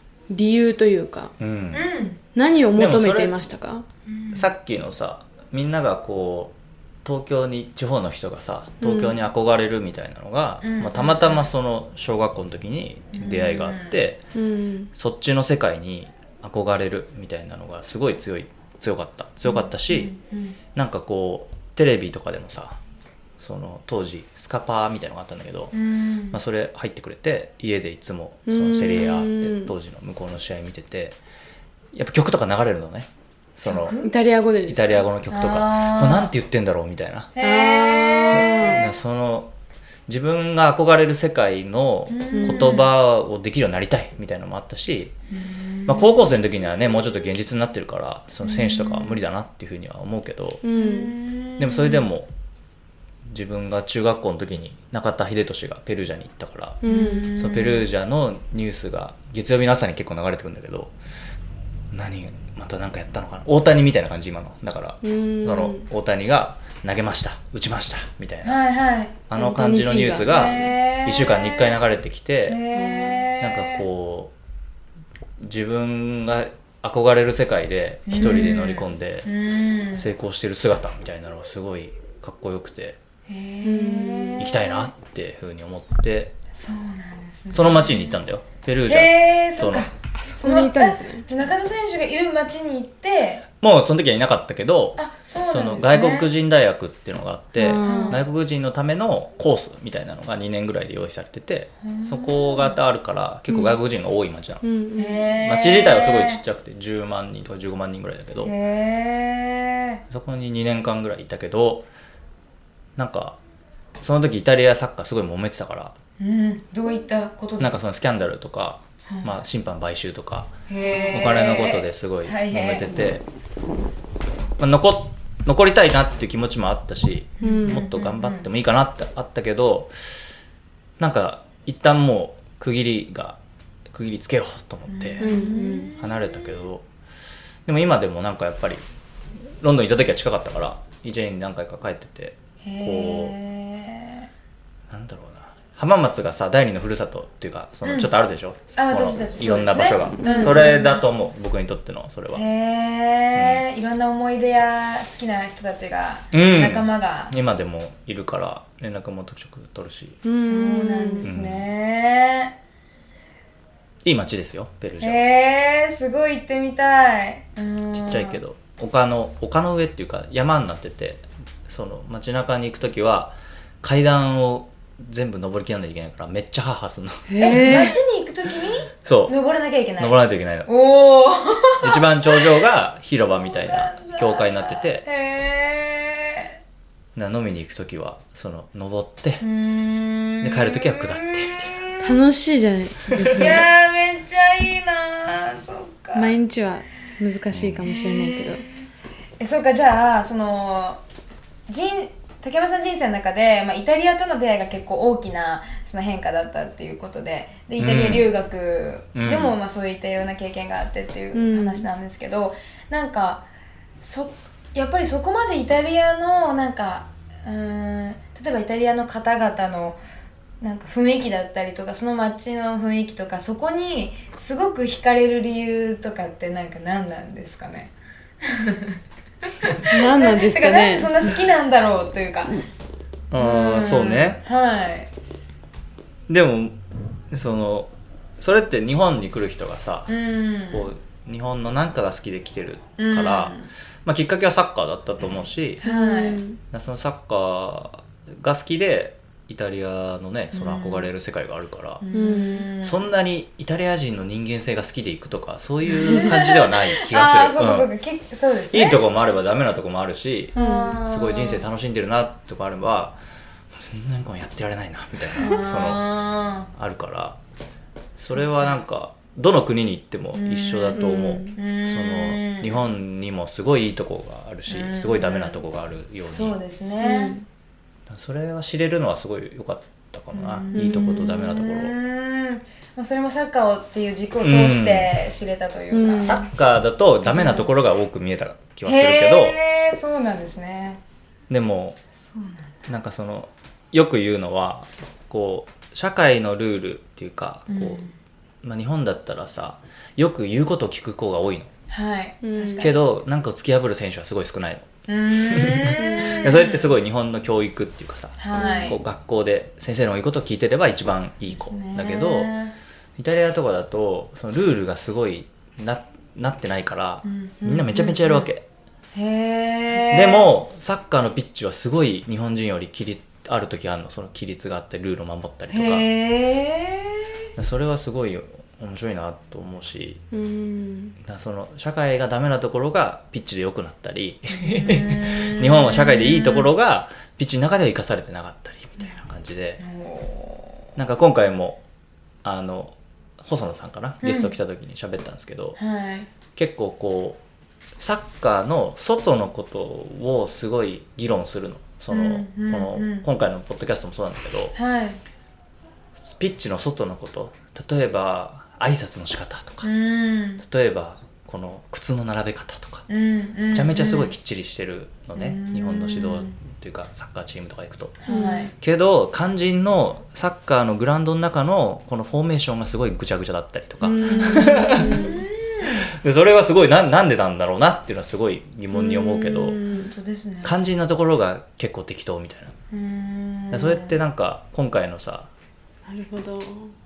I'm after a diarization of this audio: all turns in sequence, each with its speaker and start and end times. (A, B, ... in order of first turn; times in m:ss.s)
0:00.3-0:01.3 A
0:01.4-0:01.9 B
0:01.7-0:02.2 C
0:02.4-0:03.8 A
0:02.8-0:03.3 B
0:04.1-0:04.5 C
0:04.3-0:14.2 B
0:08.8-0:09.2 A
0:10.6-0:11.5 C
0:13.1-0:14.0 C
0:14.3-0:14.9 A
0:14.9-0:20.1 B
0:19.4-0:20.6 C
0:20.7-0:22.8 B
0:23.4-0:25.7 B
0:25.7-0:26.4 C
0:26.3-0:31.2 B
0:28.5-0:29.7 A
0:31.9-0:34.0 B
0:33.7-0:34.1 C
0:34.0-0:35.1 A
0:34.7-0:37.3 B
0:35.3-0:36.3 C
0:37.4-0:38.8 C
0:37.4-0:38.8 A
0:38.3-0:39.5 B
0:40.1-0:45.2 B
0:42.1-0:42.9 C
0:42.3-0:42.8 A
0:45.3-0:46.3 C
0:45.9-0:50.6 B
0:48.4-0:49.2 C
0:50.6-0:51.1 A
0:50.8-0:52.1 C
0:51.6-0:52.3 B
0:53.3-0:56.8 B
0:56.8-0:57.3 A
0:56.9-0:57.9 C
0:57.4-1:00.9 B
1:01.9-1:08.6 B
1:05.0-1:05.9 A
1:08.4-1:09.2 C
1:09.3-1:12.6 B
1:09.4-1:10.5 A
1:10.2-1:11.8 C
1:12.5-1:13.8 C
1:12.7-1:13.2 A
1:13.4-1:14.3 B
1:15.4-1:19.3 B
1:18.1-1:20.1 C
1:19.9-1:23.0 B
1:23.3-1:24.9 C
1:23.6-1:24.4 A
1:24.4-1:26.4 B
1:26.6-1:28.2 C
1:27.5-1:29.9 B
1:28.9-1:33.4 C
1:30.2-1:31.3 A
1:33.6-1:44.6 B
1:35.0-1:36.3 C
1:37.6-1:38.2 A
1:37.7-1:38.2 C
1:41.8-1:42.8 C
1:43.5-1:43.8 A
1:44.6-1:45.3 A
1:45.0-1:46.4 C
1:45.4-1:48.5 B
1:48.4-1:50.0 C
1:50.1-1:51.9 B
1:53.0-1:53.4 B
1:54.0-1:56.0 B
1:56.2-1:57.8 C
1:57.6-2:00.5 B
2:00.7-2:03.0 C
2:01.1-2:03.2 B
2:04.6-2:10.2 B
2:07.4-2:08.5 C
2:07.4-2:07.8 A
2:11.0-2:13.4 B
2:13.9-2:15.3 B
2:14.9-2:16.1 C
2:15.2-2:15.9 A
2:16.0-2:16.8 B
2:17.7-2:18.8 B
2:19.6-2:23.3 B
2:22.6-2:24.3 C
2:24.9-2:32.4 B
2:27.8-2:28.1 C
2:28.8-2:31.1 C
2:30.2-2:30.7 A
2:32.3-2:37.3 C
2:33.4-2:33.6 B
2:36.3-2:40.2 B
2:40.2-2:41.3 A
2:40.4-2:42.5 C
2:41.2-2:41.6 B
2:44.0-2:45.2 B
2:45.0-2:48.4 C
2:47.9-2:57.9 B
2:57.3-2:58.0 A
2:57.4-3:02.4 C
2:59.0-2:59.3 B
3:00.0-3:00.7 B
3:01.8-3:05.0 B
3:03.4-3:06.5 C
3:07.2-3:09.4 B
3:09.4-3:12.2 C
3:10.4-3:11.8 B
3:12.0-3:13.7 A
3:13.1-3:13.6 B
3:13.4-3:16.4 C
3:16.2-3:18.7 A
3:17.5-3:17.8 B
3:17.8-3:18.7 C
3:19.4-3:21.0 C
3:21.7-3:33.5 C
3:27.8-3:28.3 B
3:29.1-3:29.6 B
3:31.3-3:31.9 A
3:34.0-3:40.0 C
3:40.6-3:49.0 C
3:49.6-3:52.6 C
3:49.9-3:51.3 A
3:53.3-3:54.4 B
3:53.4-3:55.1 C
3:56.3-3:56.8 B
3:57.3-4:00.1 B
4:00.1-4:00.9 C
4:00.7-4:05.8 B
4:03.0-4:03.7 C
4:05.8-4:06.4 C
4:05.8-4:06.6 A
4:06.7-4:12.0 B
4:10.5-4:11.1 C
4:12.0-4:13.0 C
4:12.1-4:12.7 A
4:12.8-4:17.9 B
4:15.9-4:19.0 C
4:18.7-4:23.2 B
4:20.6-4:21.7 C
4:20.6-4:21.0 A
4:23.7-4:26.0 B
4:25.4-4:26.7 C
4:26.7-4:27.4 B
4:28.2-4:36.6 B
4:28.4-4:28.8 C
4:30.4-4:32.8 C
4:31.0-4:31.5 A
4:34.7-4:35.6 C
4:36.3-4:37.4 C
4:37.0-4:37.4 A
4:38.1-4:41.9 B
4:40.3-4:46.4 C
4:40.7-4:41.3 A
4:44.4-4:45.1 B
4:45.9-4:46.4 A
4:46.2-4:49.6 B
4:47.3-4:47.6 C
4:48.8-4:51.0 C
4:51.5-4:52.0 B
4:52.2-4:52.8 C
4:52.9-4:58.0 B
4:57.7-4:58.1 C
4:58.6-5:01.7 B
5:01.9-5:03.0 C
5:02.4-5:02.9 A
5:02.8-5:04.9 B
5:05.1-5:06.9 C
5:05.5-5:12.5 B
5:06.0-5:06.5 A
5:08.4-5:09.0 C
5:11.5-5:12.7 C
5:13.2-5:18.6 B
5:17.2-5:18.5 C
5:19.1-5:20.5 C
5:20.1-5:26.0 B
5:25.7-5:27.3 C
5:27.6-5:30.2 B
5:30.3-5:31.2 A
5:31.2-5:39.8 B
5:34.6-5:36.7 C
5:39.8-5:40.9 C
5:41.0-5:41.8 B
5:42.4-5:45.8 B
5:44.2-5:44.5 C
5:45.8-5:46.3 C
5:46.6-5:47.4 B
5:48.0-5:54.8 B
5:52.1-5:53.2 C
5:54.8-5:55.2 C
5:56.2-5:59.9 B
5:59.8-6:00.6 C
6:00.6-6:03.0 B
6:03.1-6:04.3 C
6:03.7-6:08.2 B
6:05.4-6:06.5 C
6:08.2-6:08.7 C
6:08.3-6:08.7 A
6:08.8-6:15.2 B
6:14.0-6:15.4 A
6:14.2-6:16.1 C
6:15.8-6:19.8 B
6:18.9-6:20.1 A
6:19.9-6:20.8 C
6:20.6-6:22.7 B
6:22.9-6:24.2 C
6:23.7-6:25.5 B
6:26.1-6:26.9 A